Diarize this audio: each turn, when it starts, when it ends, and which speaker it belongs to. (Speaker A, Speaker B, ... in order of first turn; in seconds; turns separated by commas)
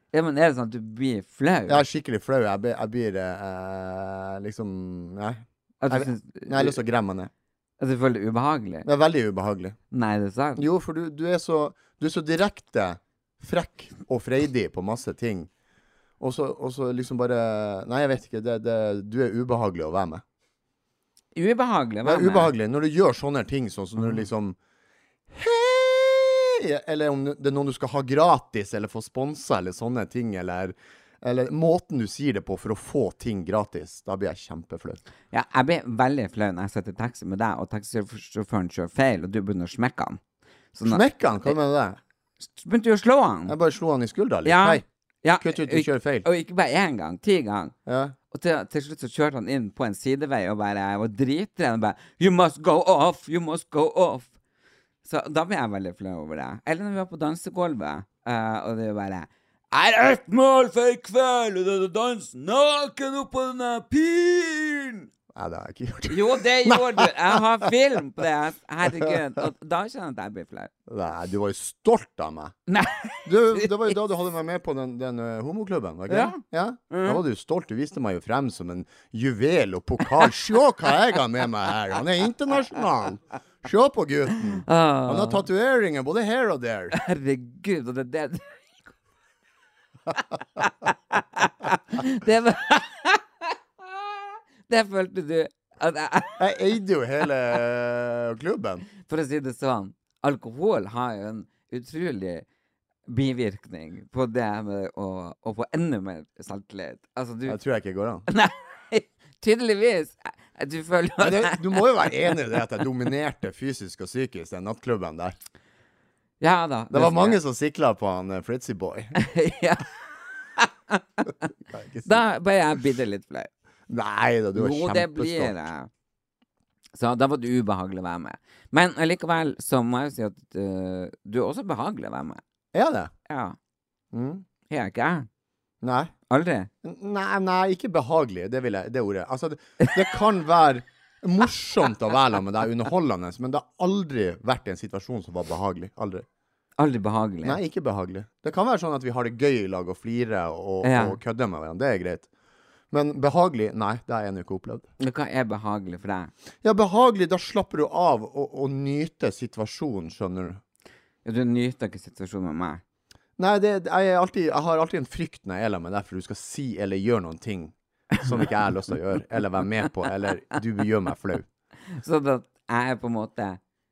Speaker A: 0.1-1.9, Speaker B: 1.7-7.3, Speaker A: 5.8-6.8, Speaker A: 7.8-8.9, Speaker B: 8.8-9.8, Speaker A: 9.9-10.7, Speaker B: 10.6-15.5, Speaker B: 16.2-20.2, Speaker A: 21.4-22.5, Speaker B: 22.0-24.6, Speaker B: 25.3-35.0, Speaker A: 35.3-40.2, Speaker A: 40.7-41.6, Speaker B: 40.9-42.0, Speaker A: 42.5-43.5, Speaker B: 43.5-44.8, Speaker A: 44.5-47.7, Speaker B: 45.4-46.3, Speaker B: 47.9-48.1, Speaker A: 48.3-54.3, Speaker A: 55.0-65.1, Speaker B: 65.3-67.4, Speaker A: 66.1-70.7, Speaker B: 68.8-69.2, Speaker B: 70.9-72.5, Speaker A: 72.7-74.0, Speaker B: 73.2-87.0, Speaker A: 76.1-77.2, Speaker A: 84.7-85.5, Speaker A: 86.9-88.7, Speaker A: 90.2-96.5, Speaker B: 96.4-98.8, Speaker A: 99.1-102.5, Speaker A: 103.1-107.6, Speaker B: 107.5-108.2, Speaker A: 108.3-112.4, Speaker B: 111.2-115.4, Speaker A: 116.4-117.4, Speaker B: 116.9-119.2, Speaker A: 119.2-120.0, Speaker A: 120.6-121.3, Speaker B: 121.7-122.2, Speaker A: 122.0-123.5, Speaker B: 123.9-125.5, Speaker A: 124.5-125.9, Speaker A: 126.9-132.4, Speaker B: 132.7-133.1, Speaker A: 133.3-133.6, Speaker B: 134.1-134.4, Speaker A: 134.7-135.3, Speaker B: 135.8-136.1, Speaker A: 136.3-136.7, Speaker B: 136.8-146.3, Speaker A: 146.8-147.6, Speaker B: 147.4-152.3, Speaker A: 150.8-151.2, Speaker B: 152.9-154.9, Speaker A: 155.0-156.3, Speaker B: 156.6-160.6, Speaker A: 161.2-162.8, Speaker B: 163.4-171.5, Speaker A: 171.9-173.6